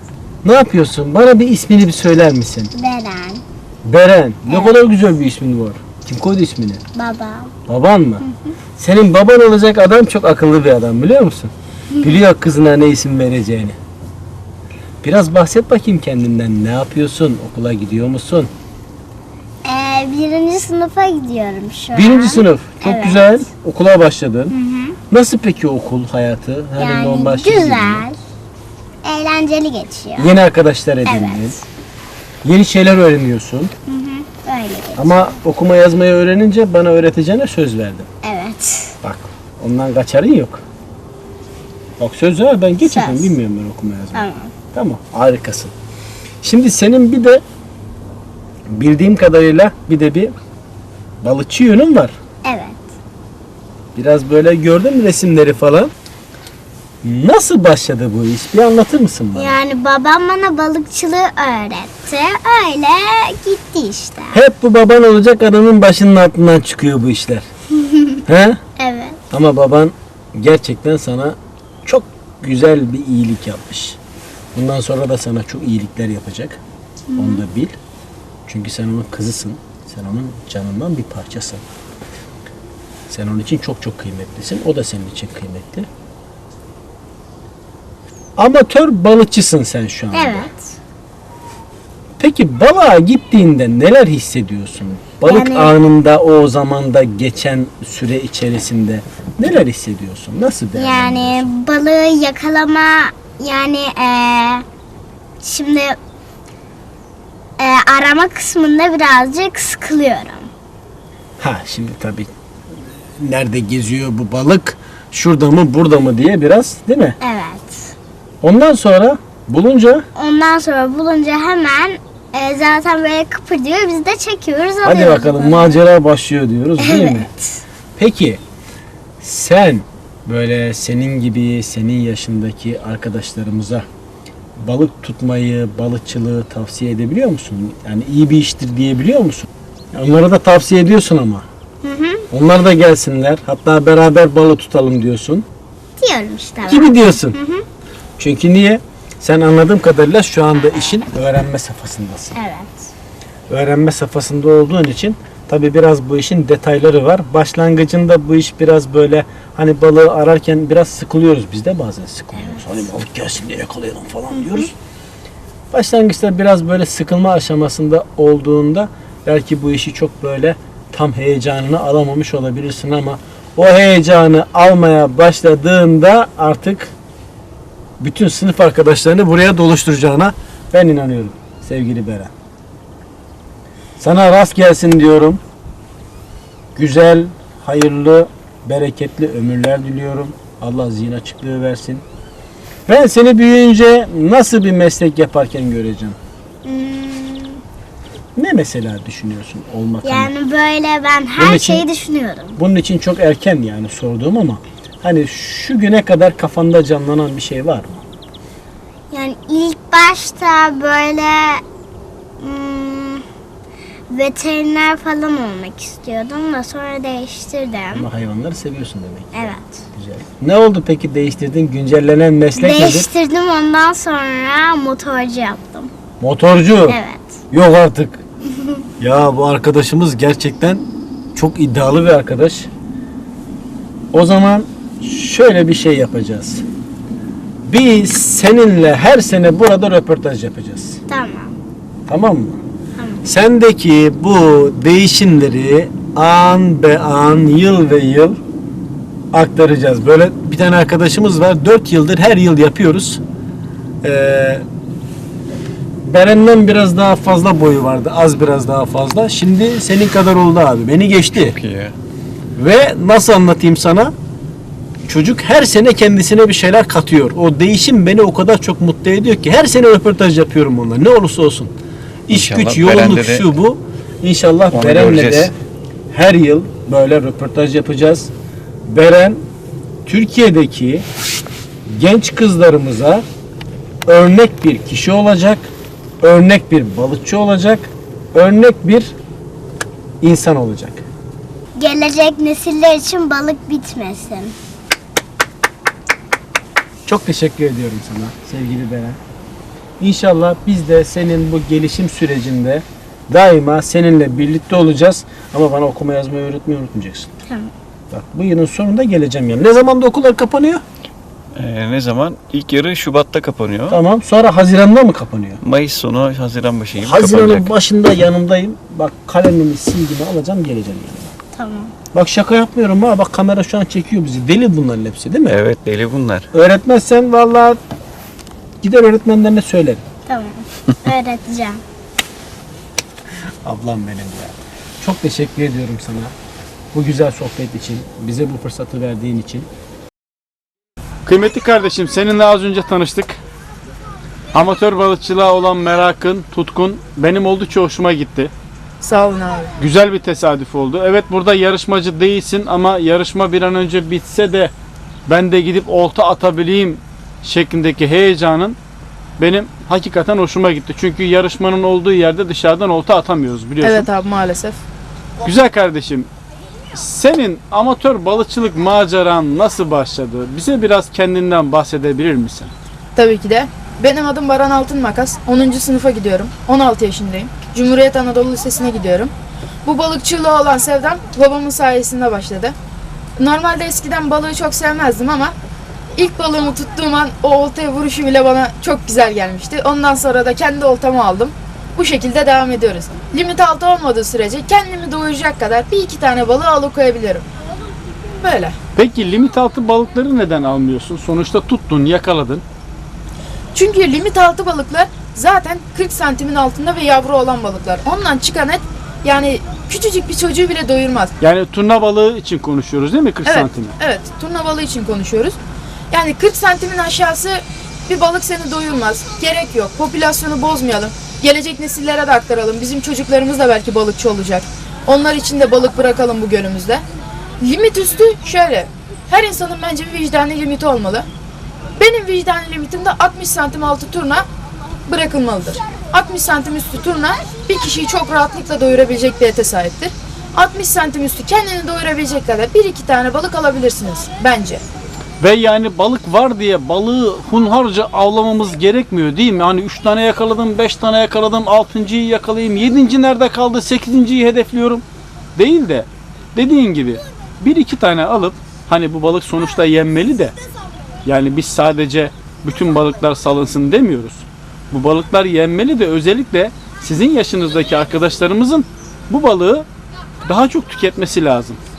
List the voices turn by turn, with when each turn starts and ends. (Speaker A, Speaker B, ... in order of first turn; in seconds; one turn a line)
Speaker A: 0.4-2.7
Speaker B: 2.7-3.4
Speaker A: 3.8-6.8
Speaker B: 4.5-4.7
Speaker B: 6.9-7.5
Speaker A: 7.7-8.2
Speaker B: 8.2-8.5
Speaker A: 8.8-11.5
Speaker A: 12.0-13.8
Speaker A: 15.0-18.5
Speaker B: 19.6-23.4
Speaker A: 21.9-24.5
Speaker B: 24.5-25.0
Speaker A: 25.1-28.1
Speaker B: 26.8-28.2
Speaker B: 29.0-30.4
Speaker A: 30.2-31.6
Speaker B: 31.1-31.6
Speaker A: 32.4-33.7
Speaker B: 33.9-35.1
Speaker A: 35.0-38.1
Speaker B: 38.2-38.9
Speaker A: 39.0-40.6
Speaker A: 42.0-45.7
Speaker B: 42.8-43.3
Speaker B: 44.1-44.5
Speaker A: 46.4-47.4
Speaker A: 48.7-50.3
Speaker A: 51.2-52.1
Speaker B: 52.4-52.8
Speaker A: 53.9-55.9
Speaker A: 57.0-59.6
Speaker B: 59.3-64.3
Speaker A: 64.3-67.5
Speaker A: 68.3-68.6
Speaker B: 68.8-69.2
Speaker A: 69.3-74.0
Speaker A: 74.5-76.6
Speaker B: 77.1-77.4
Speaker A: 77.2-77.7
Speaker A: 78.5-81.6
Speaker A: 83.1-85.9
Speaker A: 88.4-90.5
Speaker B: 90.1-90.7
Speaker A: 92.2-101.5
Speaker B: 95.2-95.7
Speaker B: 100.7-104.6
Speaker B: 105.4-106.0
Speaker B: 107.6-110.5
Speaker A: 111.4-112.3
Speaker A: 113.2-117.2
Speaker B: 117.2-117.9
Speaker A: 118.4-120.0
Speaker B: 120.2-125.8
Speaker A: 124.8-127.3
Speaker B: 126.8-127.6
Speaker A: 128.0-128.4
Speaker A: 129.2-133.8
Speaker A: 134.6-141.4
Speaker B: 141.8-142.2
Speaker A: 142.3-145.4
Speaker B: 146.0-147.6
Speaker A: 146.6-147.4
Speaker A: 148.2-152.4
Speaker B: 152.3-152.9
Speaker A: 153.5-164.7
Speaker A: 165.7-176.9
Speaker A: 178.0-182.3
Speaker A: 184.0-185.4
Speaker A: 186.8-192.0
Speaker A: 192.9-196.2
Speaker B: 196.6-197.6
Speaker A: 198.3-200.3
Speaker B: 200.0-202.6
Speaker A: 201.4-201.8
Speaker A: 202.6-208.0
Speaker B: 209.1-211.6
Speaker B: 212.4-213.2
Speaker B: 214.1-218.1
Speaker A: 217.9-223.1
Speaker B: 219.3-219.8
Speaker B: 222.5-225.9
Speaker A: 226.2-227.0
Speaker B: 226.9-227.3
Speaker A: 227.5-228.2
Speaker A: 229.0-230.8
Speaker A: 231.3-232.7
Speaker A: 234.1-236.6
Speaker A: 237.7-241.0
Speaker B: 241.1-241.6
Speaker A: 242.1-242.6
Speaker A: 243.2-248.4
Speaker A: 249.3-253.2
Speaker A: 254.0-254.6
Speaker A: 256.0-261.6
Speaker C: 261.3-261.9
Speaker A: 262.6-264.1
Speaker A: 265.1-271.7
Speaker A: 272.3-275.5
Speaker C: 272.3-273.5
Speaker C: 274.7-275.5
Speaker A: 276.1-278.3
Speaker A: 278.9-279.4
Speaker A: 280.1-281.0
Speaker A: 281.9-283.2
Speaker A: 284.1-285.7
Speaker A: 286.2-289.1
Speaker A: 290.2-291.0
Speaker B: 291.8-294.5
Speaker A: 297.1-299.2
Speaker A: 300.0-307.3
Speaker A: 308.1-310.8
Speaker C: 311.5-314.0
Speaker A: 313.9-315.6
Speaker C: 315.6-317.7
Speaker A: 317.0-321.3
Speaker B: 321.5-321.9
Speaker A: 322.1-325.6
Speaker C: 325.4-326.5
Speaker A: 326.5-327.8
Speaker A: 328.8-330.0
Speaker B: 330.2-331.8
Speaker A: 333.6-336.3
Speaker A: 336.9-339.7
Speaker D: 341.2-343.4
Speaker D: 344.5-348.5
Speaker E: 349.0-349.7
Speaker D: 349.8-354.7
Speaker D: 355.3-358.8
Speaker D: 359.4-364.1
Speaker E: 363.8-364.8
Speaker D: 365.4-366.3
Speaker D: 366.9-372.7
Speaker E: 373.1-379.3
Speaker E: 379.8-382.7
Speaker E: 383.4-385.5
Speaker E: 386.1-397.5
Speaker E: 398.3-398.8
Speaker D: 398.9-402.6
Speaker E: 403.7-411.3
Speaker D: 411.4-413.9
Speaker E: 413.4-415.6
Speaker E: 416.1-427.0
Speaker E: 427.6-431.3
Speaker E: 432.0-434.4
Speaker E: 435.1-444.8
Speaker D: 445.4-455.0
Speaker D: 455.6-460.5
Speaker D: 461.2-469.9
Speaker D: 470.4-471.8